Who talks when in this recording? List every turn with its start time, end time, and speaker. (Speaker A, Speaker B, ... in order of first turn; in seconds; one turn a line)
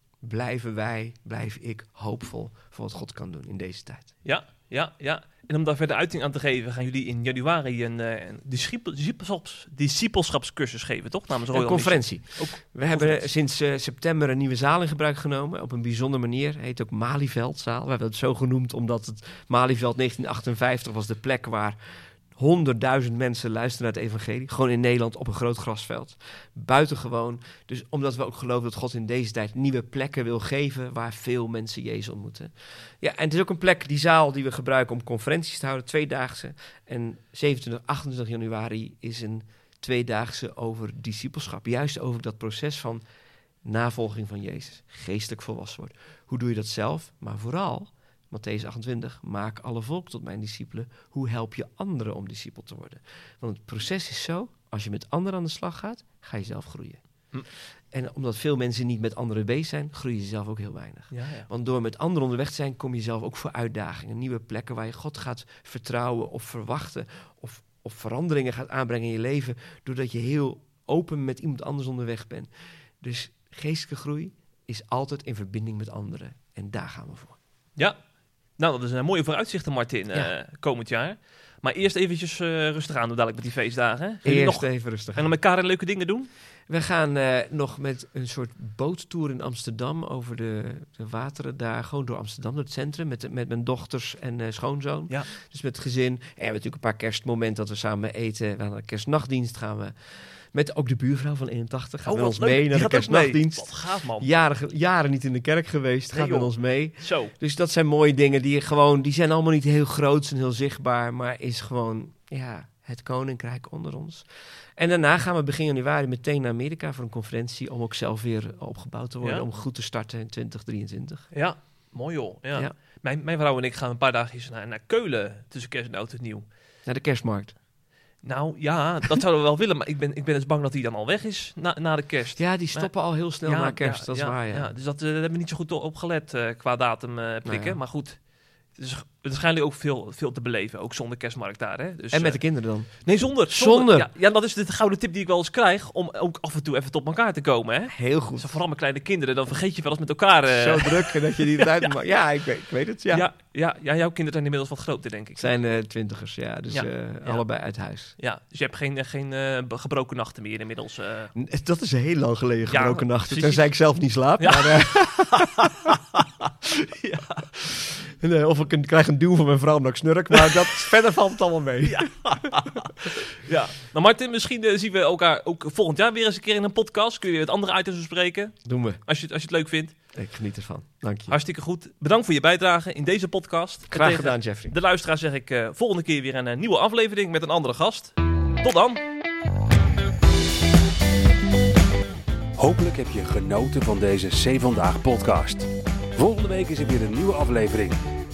Speaker A: 0.2-4.1
Speaker B: 4.2-13.3
Speaker A: 11.5-21.8
Speaker A: 22.3-43.0
Speaker A: 43.6-57.0
Speaker A: 57.9-72.5
Speaker B: 61.1-61.5
Speaker A: 73.0-77.4
Speaker B: 78.6-86.3
Speaker A: 84.2-85.3
Speaker A: 86.7-99.9
Speaker A: 100.5-114.2
Speaker B: 102.1-104.3
Speaker B: 106.1-107.3
Speaker A: 114.8-121.3
Speaker B: 119.2-119.5
Speaker B: 121.3-126.4
Speaker A: 126.9-127.5
Speaker B: 128.2-138.2
Speaker A: 132.4-134.7
Speaker A: 137.4-137.8
Speaker B: 138.8-151.9
Speaker A: 142.1-144.1
Speaker A: 147.9-148.6
Speaker A: 150.5-153.3
Speaker B: 153.1-155.5
Speaker A: 155.4-158.2
Speaker B: 156.7-157.4
Speaker B: 158.2-161.3
Speaker A: 161.3-173.1
Speaker B: 162.7-163.7
Speaker B: 164.4-165.9
Speaker B: 167.1-167.4
Speaker B: 171.8-179.9
Speaker A: 178.7-179.0
Speaker A: 180.1-181.3
Speaker B: 181.3-189.0
Speaker A: 183.9-184.7
Speaker C: 192.6-198.0